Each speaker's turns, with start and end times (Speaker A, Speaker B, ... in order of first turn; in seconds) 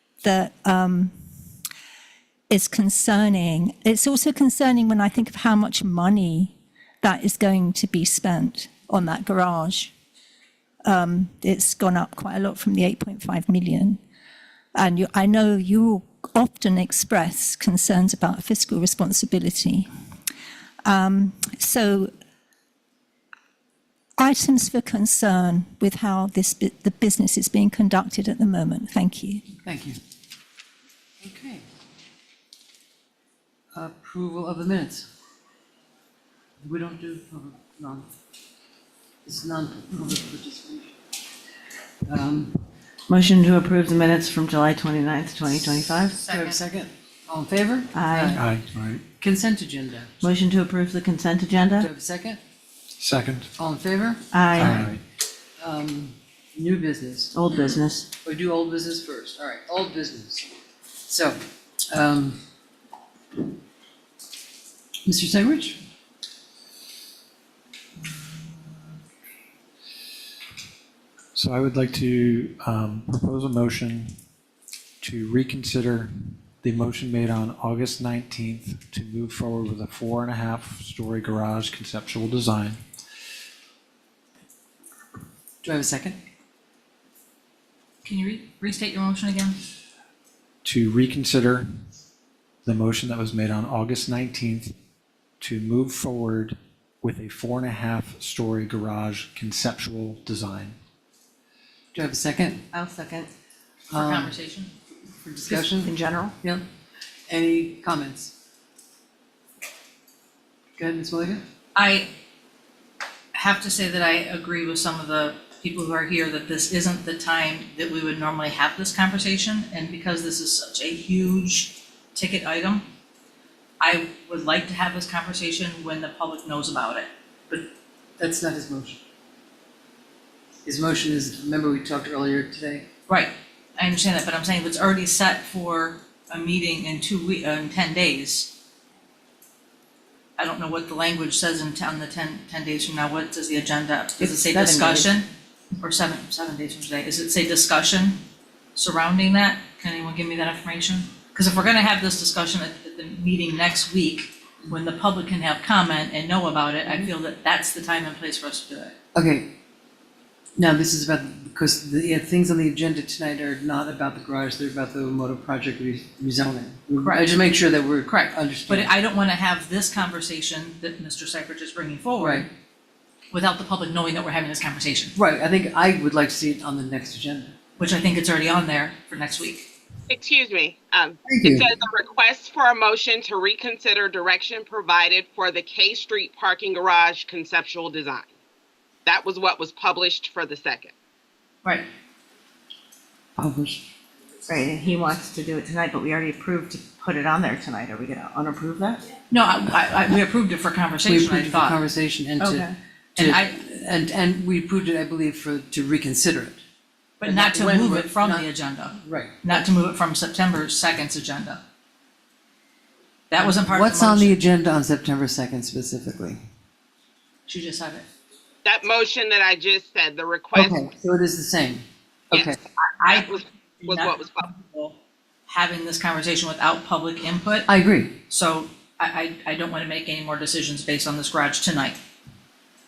Speaker A: 0.2-1.1, 2.5-9.9, 10.8-14.0, 14.8-19.9, 20.8-22.1, 24.2-29.4
Speaker B: 29.6-30.0, 31.2-31.6, 33.7-35.1, 36.6-38.1, 39.2-40.9, 42.0-42.6, 46.2-48.4, 49.2-50.1, 51.8-52.4, 53.6-54.8, 55.6-57.3, 58.2-60.5, 61.1-61.4, 61.9-62.4, 65.0-65.8, 85.6-86.2, 101.9-102.6, 103.9-104.3, 105.2-106.6, 107.3-108.3, 110.8-111.4, 128.2-129.0, 130.7-132.9, 144.5-145.1, 159.2-159.5, 160.6-168.9, 172.2-172.5, 175.2-177.6, 181.2-181.7, 193.4-193.9, 201.1-206.6, 207.2-208.5, 209.0-209.6, 213.4-216.4, 220.6-222.6, 227.7-228.2
Speaker C: 43.1-46.2, 47.9-48.4, 50.2-51.9, 54.3-54.9, 57.3-58.1, 102.7-103.3, 105.5-106.4, 194.5-199.1, 202.4-202.8
Speaker D: 46.2-46.6, 88.0-89.6, 103.9-104.7, 111.8-112.1, 113.3-122.8, 123.8-127.6, 133.1-138.5, 140.4-145.3, 145.8-148.2, 148.8-158.9, 167.0-167.3, 168.1-172.5, 173.3-175.2, 177.8-179.7, 199.3-201.8, 203.2-203.6, 207.2-211.6, 213.3-214.4, 217.5-218.1, 223.0-227.7, 228.3-232.0
Speaker E: 48.3-49.0, 53.0-53.5, 54.5-55.0, 71.3-74.2, 75.0-82.8, 90.6-91.7, 92.7-94.7, 95.4-100.8
Speaker F: 180.1-188.3, 189.1-190.9, 218.7-220.8, 223.1-224.4